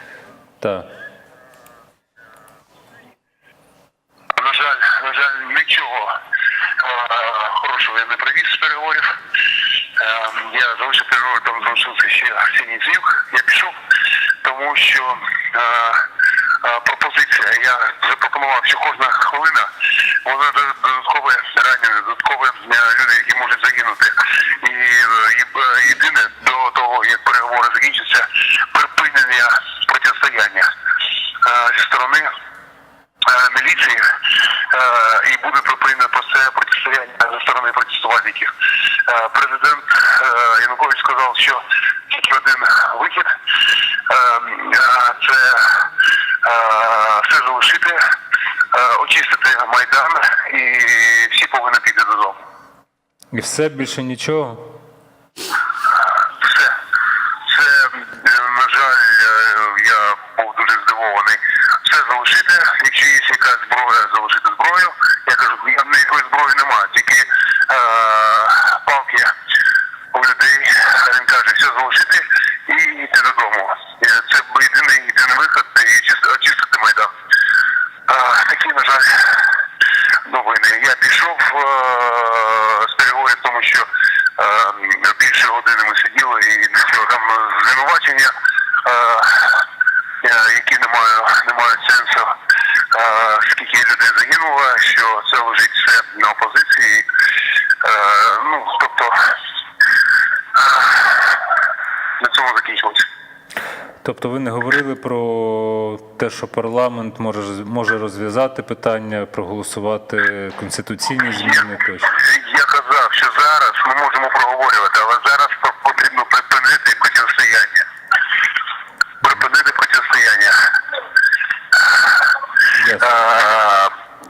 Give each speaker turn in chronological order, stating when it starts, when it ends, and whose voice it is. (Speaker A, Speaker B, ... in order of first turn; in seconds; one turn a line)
Speaker A: 0.6-0.9
Speaker B: 4.4-6.2
Speaker B: 6.8-9.2
Speaker B: 10.0-13.8
Speaker B: 14.4-16.0
Speaker B: 16.6-30.7
Speaker B: 31.4-32.3
Speaker B: 33.2-34.1
Speaker B: 34.7-38.5
Speaker B: 39.0-43.3
Speaker B: 44.1-45.9
Speaker B: 46.4-48.0
Speaker B: 48.7-52.4
Speaker A: 53.3-54.8
Speaker B: 56.4-56.7
Speaker B: 57.5-69.3
Speaker B: 70.1-77.1
Speaker B: 78.1-79.6
Speaker B: 80.2-89.7
Speaker B: 90.2-92.3
Speaker B: 92.9-97.1
Speaker B: 97.8-99.2
Speaker B: 100.5-101.4
Speaker B: 102.2-103.0
Speaker A: 104.0-112.1
Speaker B: 112.1-117.9
Speaker B: 119.2-120.6
Speaker A: 122.8-123.1
Speaker B: 123.0-123.9